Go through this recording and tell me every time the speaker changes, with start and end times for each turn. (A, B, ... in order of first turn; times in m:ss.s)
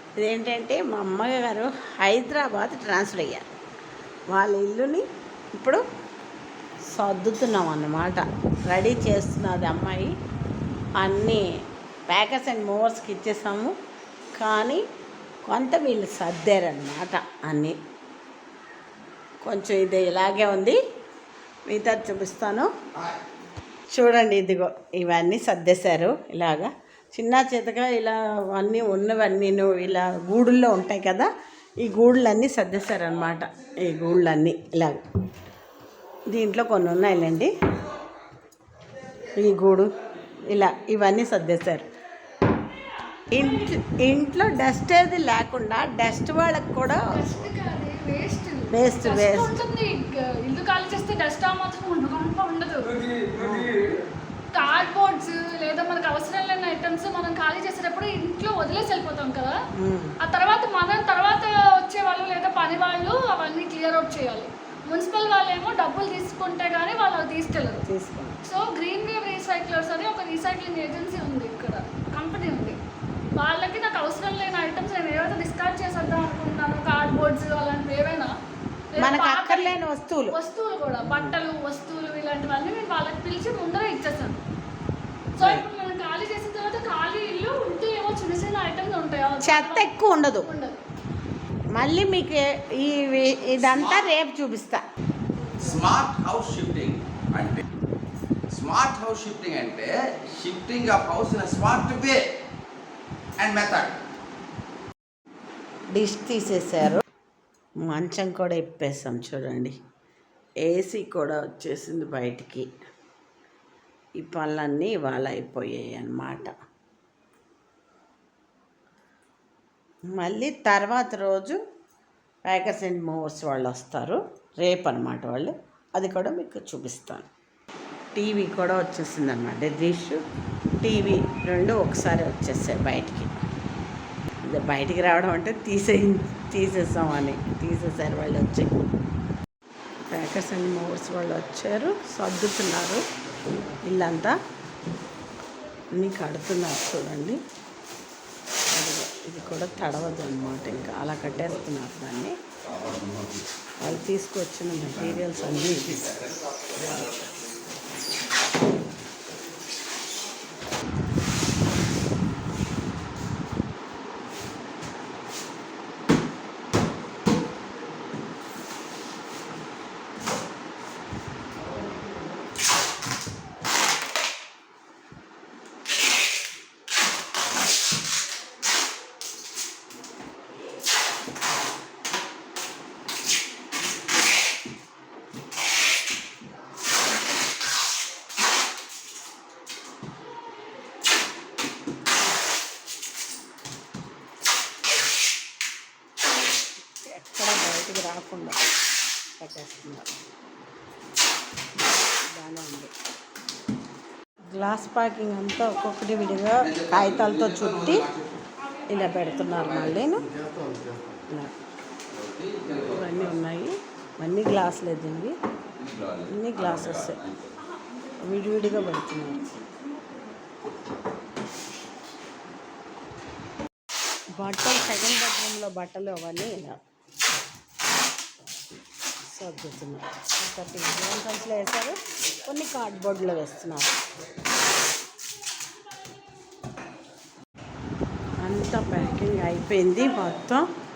0:00.2-0:03.5 A
0:04.3-0:05.0 A
0:05.6-0:05.8 A
0:06.9-0:10.1 A
0:11.0-0:11.5 A
0:12.1-0:13.7 A
0:14.4-0:14.8 A
0:15.5-0:17.8 A
0:19.4-0:20.8 A
0:21.7-0:22.7 A
0:23.9-0:31.3 A
0:31.8-0:35.0 A
0:36.3-0:37.5 A
0:39.3-0:39.9 A
0:40.5-0:41.9 A
0:43.3-0:47.2 A
0:43.4-0:43.7 B
0:47.1-0:53.3 B
0:48.7-0:49.6 A
0:53.3-0:53.8 A
0:54.5-0:59.6 B
0:59.8-1:00.2 A
1:00.2-1:07.9 B
1:07.9-1:08.4 A
1:08.4-1:12.8 B
1:13.3-1:18.3 B
1:18.9-1:19.8 B
1:19.0-1:20.4 A
1:20.3-1:24.4 B
1:21.0-1:21.4 A
1:25.4-1:30.8 B
1:25.4-1:25.6 A
1:29.4-1:30.5 A
1:31.8-1:34.8 A
1:35.6-1:37.6 C
1:38.5-1:42.3 C
1:43.4-1:44.0 C
1:45.9-1:47.0 A
1:47.8-1:49.8 A
1:50.6-1:52.7 A
1:54.2-1:56.5 A
2:00.1-2:01.6 A
2:02.5-2:07.3 A
2:08.2-2:10.2 A
2:10.8-2:13.4 A
2:14.4-2:18.7 A
2:20.1-2:23.0 A
2:23.8-2:24.4 A
2:26.0-2:27.4 A
2:28.7-2:32.4 A
2:32.7-2:33.2 C
2:33.8-2:36.2 A
2:36.4-2:36.9 C
3:17.0-3:18.6 A
3:19.4-3:20.1 A
3:22.3-3:22.9 A
3:24.5-3:28.1 A
3:26.7-3:28.4 C
3:28.6-3:30.1 B
3:28.9-3:30.3 A
3:31.3-3:31.5 A
3:32.1-3:33.0 C
3:32.7-3:35.4 A
3:35.8-3:37.4 C
3:36.2-3:37.2 A
3:38.2-3:39.4 A
3:44.4-3:46.8 A
3:49.3-3:54.0 A
3:58.4-4:00.7 A